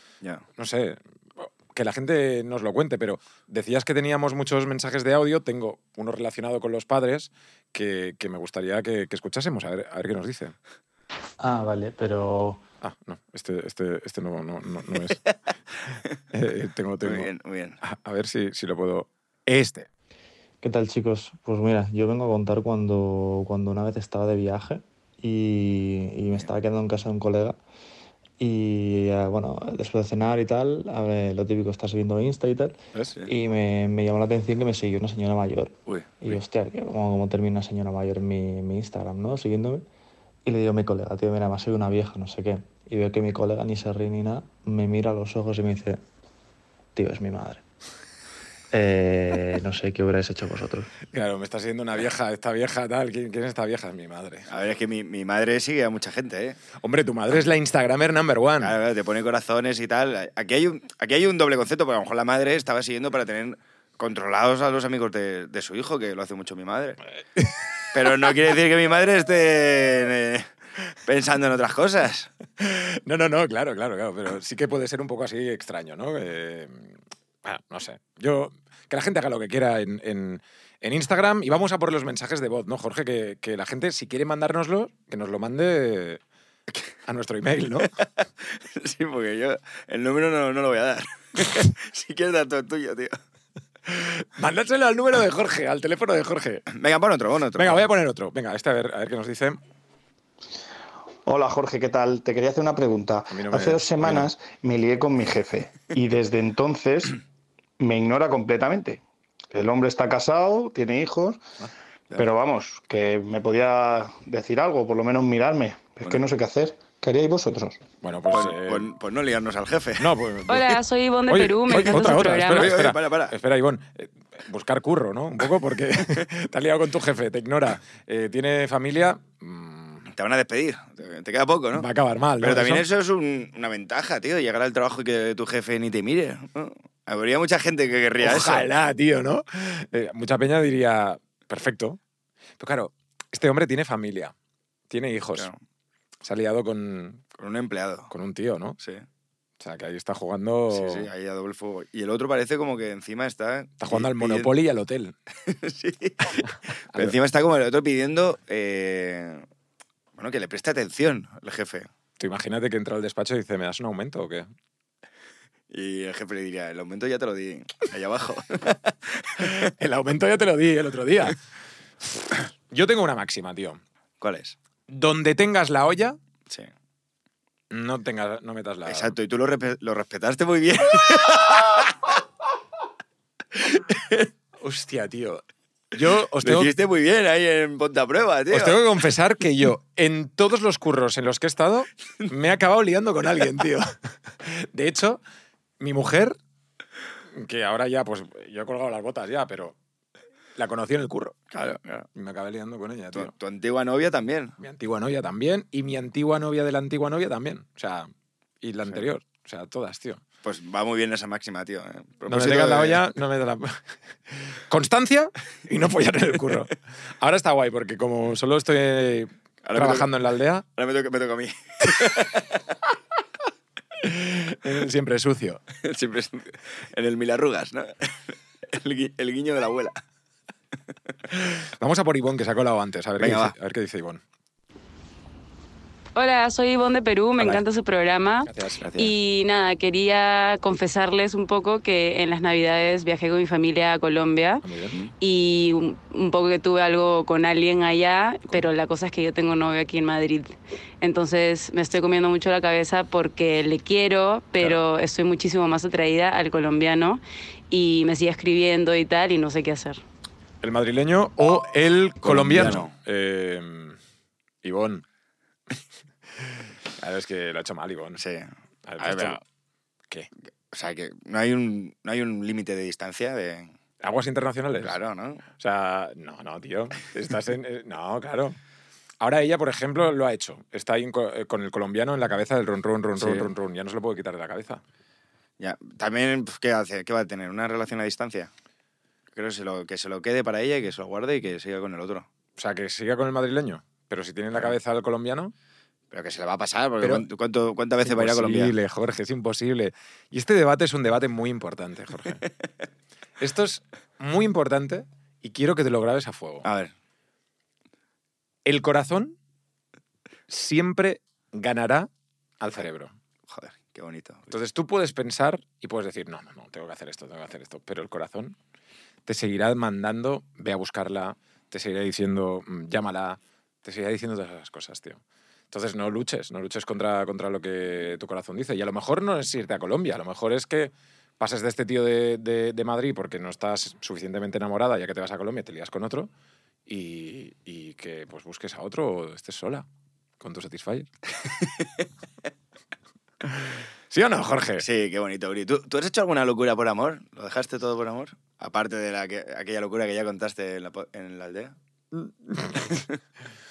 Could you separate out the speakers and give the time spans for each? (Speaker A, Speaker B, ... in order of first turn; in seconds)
Speaker A: 0.6-10.5, 12.8-15.2, 16.3-17.3, 17.8-19.9, 51.1-54.5, 56.8-58.8, 67.3-68.3, 72.6-86.2, 87.0-88.0, 93.8-96.7, 97.5-99.6, 103.3-104.3, 118.0-118.9, 120.0-130.1, 131.7-132.8, 138.2-142.0, 142.6-144.3, 144.9-145.5, 146.2-147.2, 148.1-148.8, 149.6-151.1, 153.8-155.1, 162.2-164.5, 169.4-171.4, 172.1-173.8, 174.9-176.2, 177.7-179.2, 180.9-181.9, 184.6-186.7, 188.5-195.2, 195.8-196.3, 197.3-199.8, 200.6-201.4, 202.1-203.3, 204.6-208.1, 208.6-210.2, 212.3-220.6, 224.0-225.6, 231.3-234.2, 238.4-239.1, 244.6-244.9, 260.6-264.0, 264.6-265.0, 266.3-268.2, 268.9-269.4, 274.0-275.0, 275.5-278.6, 279.2-284.8, 292.6-295.5, 297.0-297.3, 298.0-302.4, 303.4-306.6, 308.6-309.4, 310.5-313.1, 314.5-318.6, 319.2-336.3, 336.9-339.9, 340.4-341.1, 343.4-344.9, 352.1-353.1
Speaker B: 11.4-12.6, 20.6-27.6, 28.4-39.8, 40.5-46.0, 46.9-47.6, 48.7-50.9
Speaker C: 17.0-17.8, 54.5-56.6, 58.6-67.0, 67.9-70.5, 71.0-72.3, 88.4-93.2, 96.7-97.8, 118.3-120.1, 122.4-123.3, 130.1-131.9, 132.4-138.7, 147.4-148.1, 148.8-149.0, 150.7-154.5, 155.4-159.4, 160.2-161.9, 165.7-169.7, 174.2-174.6, 178.8-181.9, 183.9-184.3, 186.4-188.8, 201.5-202.1, 203.1-204.6, 210.4-213.0, 219.6-220.1, 220.7-222.6, 225.8-230.0, 233.2-233.5, 262.2-262.9, 268.2-269.4, 270.7-273.7, 274.8-275.4, 283.2-283.5, 285.6-288.5, 289.3-292.3, 296.1-298.7, 306.6-306.9, 313.5-314.6, 344.8-351.7
Speaker D: 101.2-107.2, 107.8-111.4, 112.2-117.8
Speaker E: 120.5-122.7, 236.2-244.6, 245.2-260.0